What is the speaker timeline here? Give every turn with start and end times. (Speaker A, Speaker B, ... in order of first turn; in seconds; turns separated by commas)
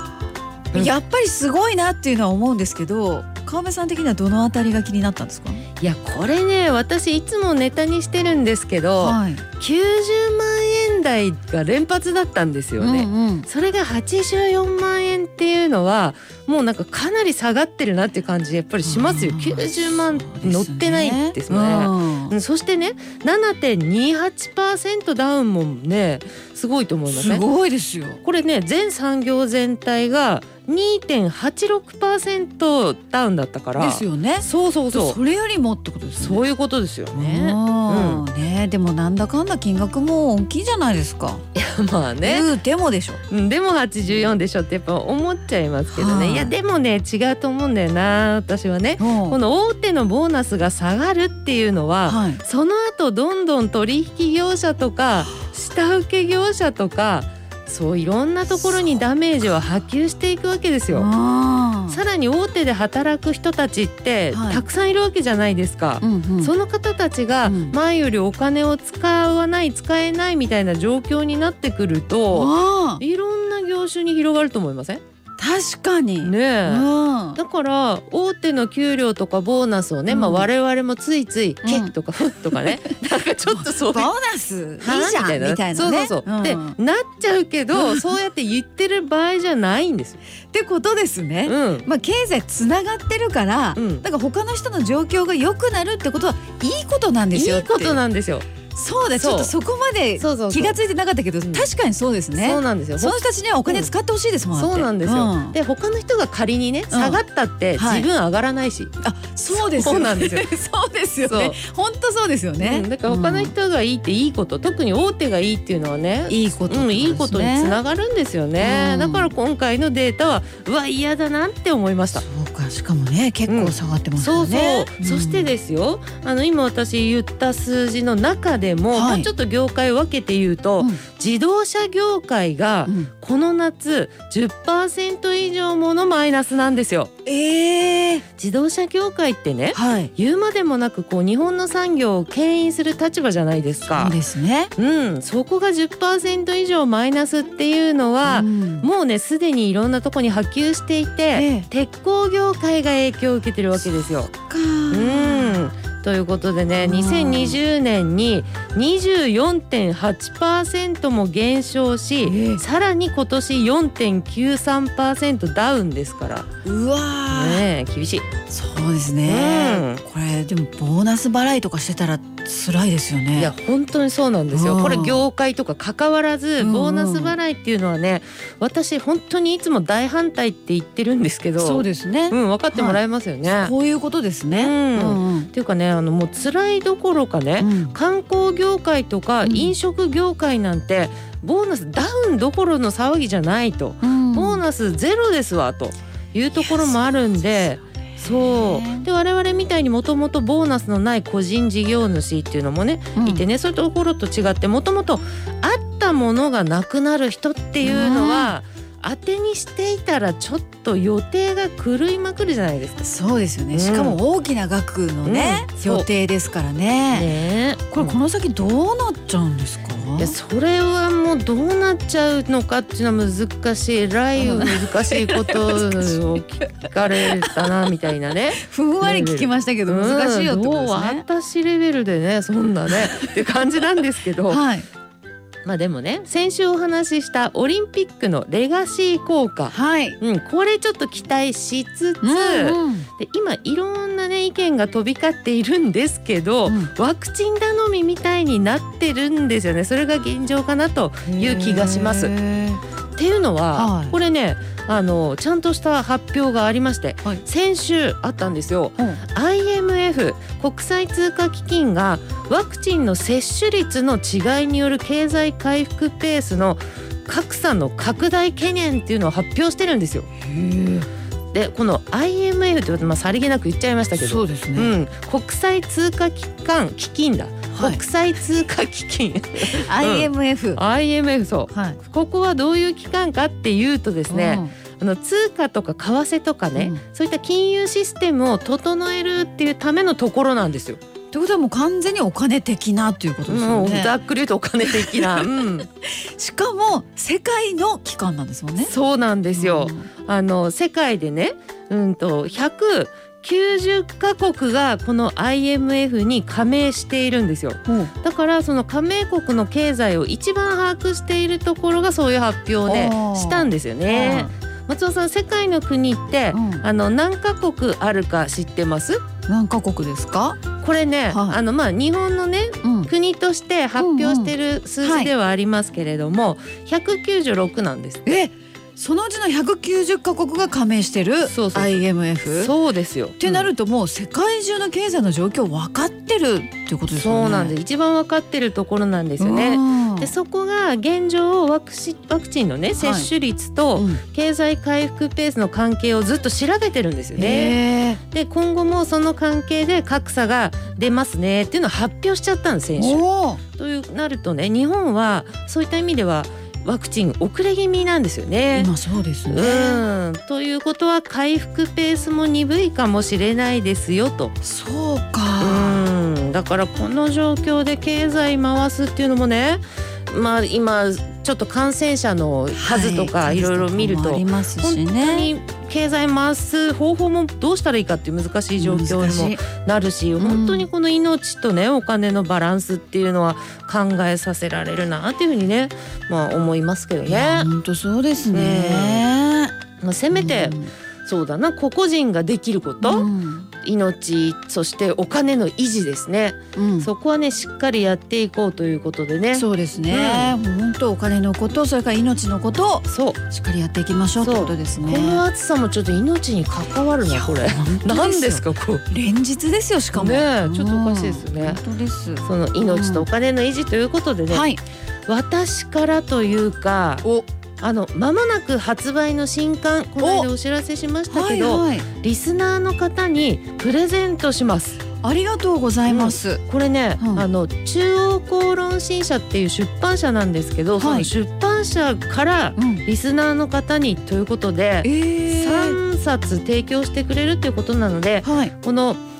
Speaker A: 0.7-5.6, Speaker B: 5.8-27.5, Speaker A: 9.0-9.4, Speaker A: 12.8-13.5, Speaker A: 18.8-22.4, Speaker A: 27.1-28.2, Speaker B: 28.2-35.2, Speaker A: 33.8-36.4, Speaker B: 36.2-38.2, Speaker A: 37.1-41.4, Speaker B: 41.5-42.5, Speaker A: 42.2-43.2, Speaker B: 43.3-61.1, Speaker A: 45.9-46.6, Speaker A: 49.0-49.4, Speaker A: 52.1-52.4, Speaker A: 60.9-62.0, Speaker B: 61.9-75.0, Speaker A: 64.3-64.7, Speaker A: 66.0-66.5, Speaker A: 67.4-67.8, Speaker A: 72.3-73.0, Speaker A: 75.4-77.4, Speaker B: 76.2-84.1, Speaker A: 80.1-80.5, Speaker A: 81.6-81.9, Speaker A: 82.5-83.0, Speaker A: 83.5-86.8, Speaker B: 84.8-90.2, Speaker A: 87.7-88.0, Speaker A: 90.5-98.0, Speaker B: 91.5-91.9, Speaker B: 93.8-94.1, Speaker B: 97.3-98.5, Speaker A: 98.7-105.6, Speaker B: 99.2-99.5, Speaker B: 100.2-100.8, Speaker B: 101.4-101.7, Speaker B: 102.3-103.9, Speaker B: 104.5-108.9, Speaker A: 106.9-107.2, Speaker A: 107.8-108.1, Speaker A: 109.0-113.5, Speaker B: 109.5-110.5, Speaker B: 111.2-111.6, Speaker B: 112.6-122.2, Speaker A: 116.3-117.8, Speaker A: 118.6-119.3, Speaker A: 122.1-125.5, Speaker B: 123.5-137.1, Speaker A: 128.9-129.3, Speaker A: 132.9-133.1, Speaker A: 137.3-138.2, Speaker B: 138.4-144.2, Speaker A: 139.7-140.1, Speaker A: 143.9-144.7, Speaker B: 144.8-154.3, Speaker A: 148.2-148.9, Speaker A: 151.3-151.7, Speaker A: 153.8-155.7, Speaker B: 154.9-166.5, Speaker A: 156.8-157.6, Speaker A: 162.2-162.6, Speaker A: 166.6-167.7, Speaker B: 167.3-168.3, Speaker A: 168.5-173.5, Speaker B: 169.2-170.0, Speaker B: 173.3-183.7, Speaker A: 174.5-175.2, Speaker A: 176.6-177.4, Speaker A: 181.6-185.5, Speaker B: 184.5-213.1, Speaker A: 187.6-188.0, Speaker A: 189.4-189.8, Speaker A: 194.0-194.6, Speaker A: 196.6-197.6, Speaker A: 198.2-199.1, Speaker A: 203.2-203.4, Speaker A: 207.8-208.6, Speaker A: 213.0-217.3, Speaker B: 213.7-214.2, Speaker B: 215.2-216.1, Speaker B: 217.1-218.2, Speaker A: 217.9-220.4, Speaker B: 220.2-234.6, Speaker A: 224.4-227.9, Speaker A: 228.6-231.2, Speaker A: 232.9-233.3, Speaker A: 234.5-234.9, Speaker B: 235.7-252.3, Speaker A: 239.7-240.2, Speaker A: 242.2-243.1, Speaker A: 251.3-252.8, Speaker B: 253.2-270.3, Speaker A: 253.7-254.2, Speaker A: 270.4-271.1, Speaker B: 271.5-291.0, Speaker A: 274.2-274.9, Speaker A: 277.7-278.0, Speaker A: 279.6-280.8, Speaker A: 281.7-282.0, Speaker A: 284.3-284.7, Speaker A: 286.7-287.0, Speaker A: 291.3-294.1, Speaker B: 293.5-295.9, Speaker A: 294.8-295.5, Speaker A: 296.1-298.9, Speaker B: 298.8-319.2, Speaker A: 299.5-300.1, Speaker A: 312.9-314.5, Speaker A: 316.5-316.9, Speaker A: 319.5-320.6, Speaker B: 320.8-328.2, Speaker A: 321.3-321.6, Speaker A: 322.8-323.1, Speaker A: 324.0-325.3, Speaker A: 328.2-332.7, Speaker B: 331.4-333.7, Speaker A: 333.4-337.8, Speaker B: 337.1-353.2, Speaker A: 339.4-340.3, Speaker A: 343.0-343.3, Speaker A: 344.0-344.2, Speaker A: 347.4-348.2, Speaker A: 353.0-353.6, Speaker B: 353.8-358.9, Speaker A: 358.7-360.0, Speaker B: 359.5-364.5, Speaker A: 364.6-366.1, Speaker B: 365.6-387.7, Speaker A: 372.7-375.5, Speaker A: 378.8-379.6, Speaker A: 380.4-380.9, Speaker A: 387.3-389.7, Speaker B: 388.5-389.3, Speaker B: 390.0-393.3, Speaker A: 390.3-390.9, Speaker A: 393.0-393.7, Speaker B: 393.8-400.6, Speaker A: 396.8-397.1, Speaker A: 399.5-405.4, Speaker B: 403.1-403.4, Speaker B: 404.4-409.0, Speaker A: 407.2-413.3, Speaker B: 410.1-411.8, Speaker B: 412.4-414.7, Speaker A: 414.5-414.8, Speaker B: 415.3-417.2, Speaker B: 417.8-425.1, Speaker A: 420.2-420.5, Speaker A: 421.3-422.1, Speaker A: 425.2-426.6, Speaker B: 426.1-439.2, Speaker A: 427.2-427.5, Speaker A: 431.0-431.3, Speaker A: 432.8-433.0, Speaker A: 435.0-436.0, Speaker A: 438.4-438.7